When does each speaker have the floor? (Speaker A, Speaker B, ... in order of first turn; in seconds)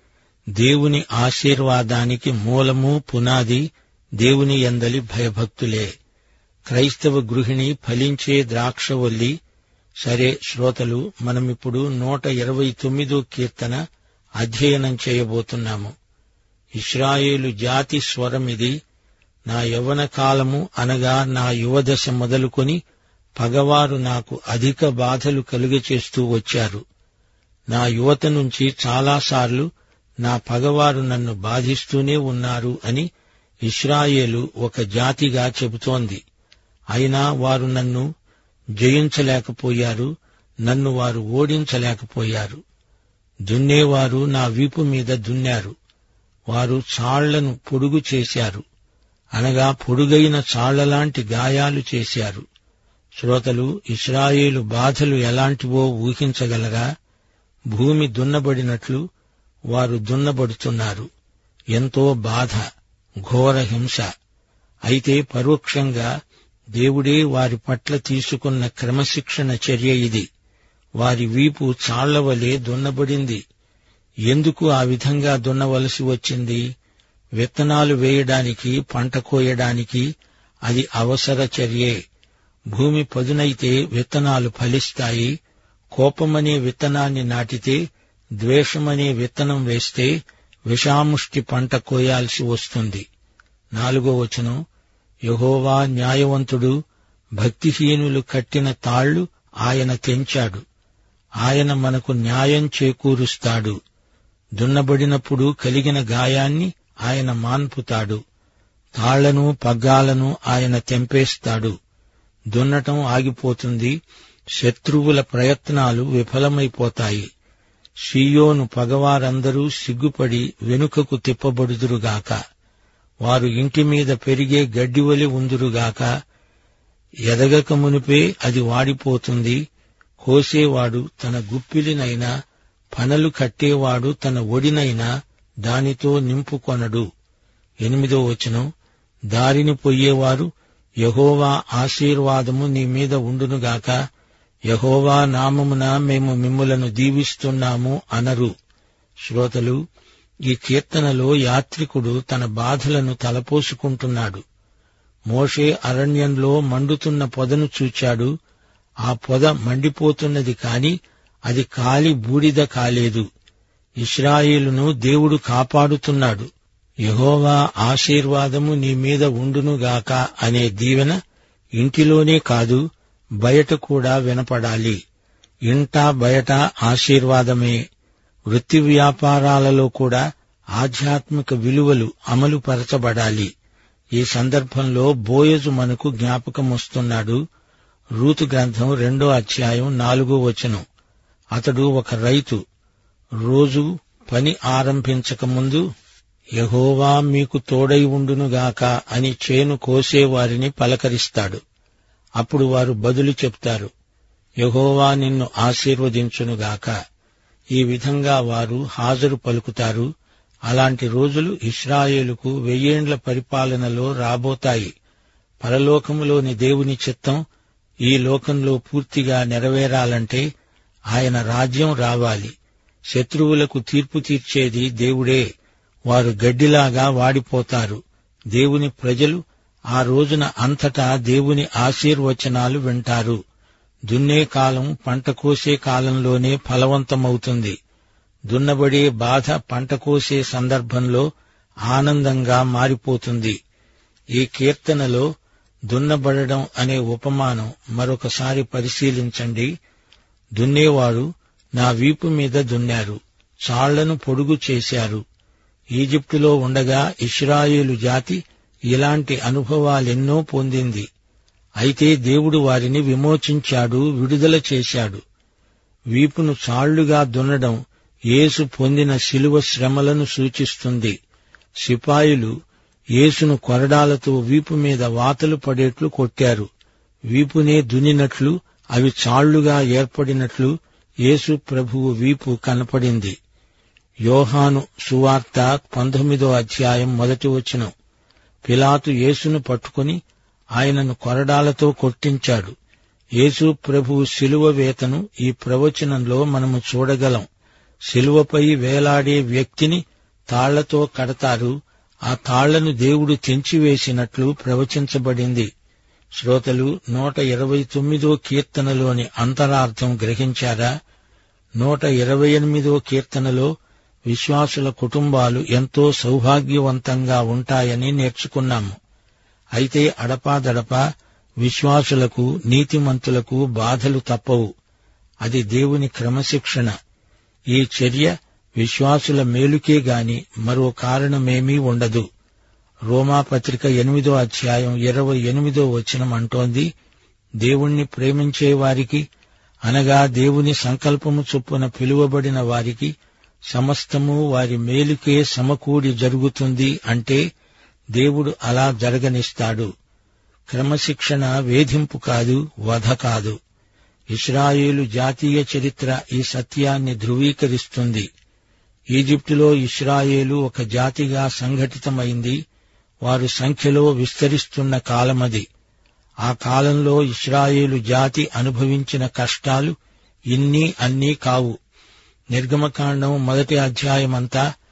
Speaker A: 0.6-3.6, 4.2-5.9, 6.7-9.3, 10.0-13.8, 14.4-15.9, 16.8-18.8, 19.5-22.8, 23.4-26.8, 27.7-29.7, 30.2-33.1, 33.6-36.2, 36.9-38.1, 38.8-40.1, 40.6-42.6, 43.5-45.7, 46.5-48.6, 49.4-52.4, 53.2-56.9, 57.7-59.0, 59.7-61.1, 61.7-62.6, 63.2-64.1, 64.9-66.1, 66.8-70.2, 71.0-73.4, 74.3-76.6, 77.4-80.1, 80.7-82.0, 82.7-85.3, 85.9-87.8, 88.4-90.1, 90.7-93.0, 93.8-94.6, 95.3-96.7, 97.4-100.6, 101.4-103.8, 104.6-108.2, 109.0-111.7, 112.5-113.9, 114.6-117.2, 118.1-122.4, 123.2-126.1, 127.3-129.6, 130.2-132.3, 132.9-135.1, 135.6-137.1, 137.8-138.7, 139.3-140.5, 141.0-144.0, 144.7-148.5, 149.2-149.8, 150.5-154.4, 155.3-158.3, 159.1-160.9, 161.5-163.2, 164.0-166.5, 167.1-171.1, 171.8-172.8, 173.4-175.0, 175.7-177.8, 178.5-180.2, 180.8-183.5, 184.2-187.4, 188.2-190.8, 191.6-192.6, 193.4-195.8, 196.6-201.6, 202.4-203.9, 204.6-206.9, 207.7-210.1, 210.7-214.9, 215.6-217.4, 218.1-220.4, 221.1-222.5, 223.1-225.4, 226.1-228.0, 228.5-229.4, 229.9-233.4, 234.1-237.7, 238.5-241.2, 241.9-243.6, 244.3-245.2, 245.9-249.7, 250.6-255.2, 255.9-261.1, 261.8-265.2, 266.1-267.8, 268.3-271.1, 271.8-272.5, 273.2-276.7, 277.3-280.7, 281.2-283.3, 284.2-287.9, 288.7-290.2, 290.8-292.7, 293.4-297.4, 298.1-301.7, 302.3-305.7, 306.4-310.9, 311.8-313.7, 314.3-318.9, 319.7-321.0, 321.6-324.7, 325.4-326.9, 327.7-332.2, 333.1-336.9, 337.6-339.2, 339.9-343.1, 343.7-347.4, 348.1-349.9, 350.7-353.6, 354.3-358.3, 359.1-362.6, 363.2-365.7, 366.4-369.9, 370.5-371.8, 372.5-374.6